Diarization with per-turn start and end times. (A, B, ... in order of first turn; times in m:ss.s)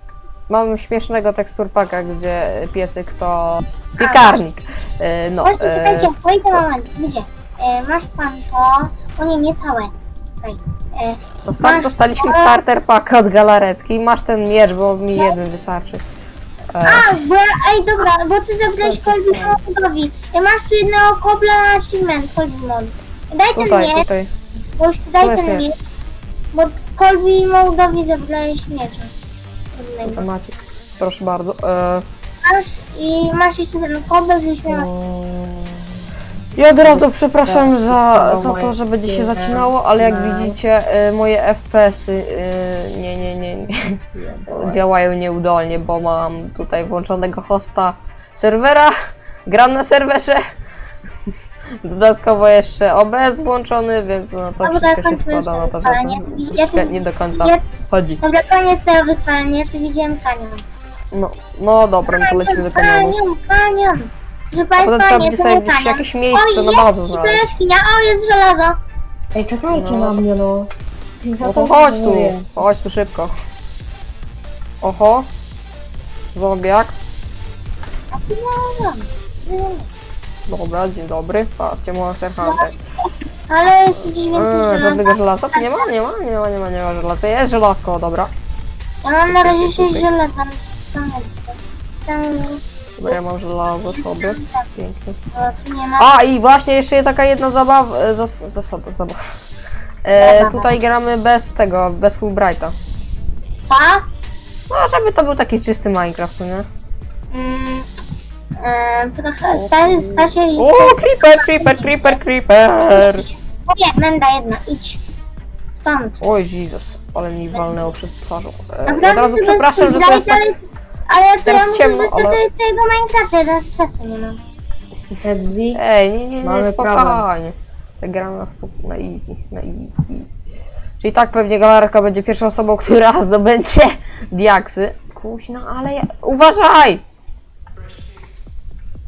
0:00.5-0:06.6 A
0:04.0-0:04.4 B
0:05.4-0:12.6 B
0:11.4-0:16.0 A
0:16.7-0:17.1 A
0:16.8-0:24.0 B
0:18.8-0:19.6 C
0:23.5-0:24.3 A
0:24.8-0:25.7 B
0:25.2-0:25.7 A
0:26.5-0:29.1 B
0:29.8-0:30.2 B
0:30.0-0:32.0 A
0:32.4-0:34.9 B
0:34.7-0:35.8 C
0:36.6-0:48.9 A
0:36.6-0:40.6 C
0:44.1-0:44.8 C
0:49.5-0:50.4 A
0:51.8-0:58.2 A
0:54.6-0:57.6 B
0:58.2-1:00.6 B
1:01.1-1:03.2 A
1:02.1-1:08.8 B
1:04.8-1:07.5 A
1:09.3-1:10.7 C
1:09.7-1:10.2 A
1:11.2-1:12.5 C
1:11.4-1:13.3 A
1:14.8-1:15.2 A
1:16.3-1:16.9 A
1:18.1-1:19.9 B
1:20.5-1:22.8 A
1:22.4-1:25.9 B
1:24.3-1:28.3 A
1:29.0-1:34.7 B
1:29.3-1:30.0 A
1:33.0-1:35.2 A
1:35.3-1:36.1 B
1:36.0-1:39.3 A
1:40.0-1:42.7 A
1:40.2-1:40.8 B
1:43.7-1:44.0 B
1:44.7-1:46.7 A
1:47.3-1:47.9 B
1:48.6-1:52.2 B
1:49.5-1:53.3 A
1:52.9-1:55.0 B
1:55.8-1:56.2 B
1:56.2-2:00.5 A
1:58.9-2:04.4 B
2:01.4-2:02.4 A
2:05.2-2:05.8 C
2:05.7-2:10.3 A
2:06.4-2:07.2 C
2:11.0-2:17.0 A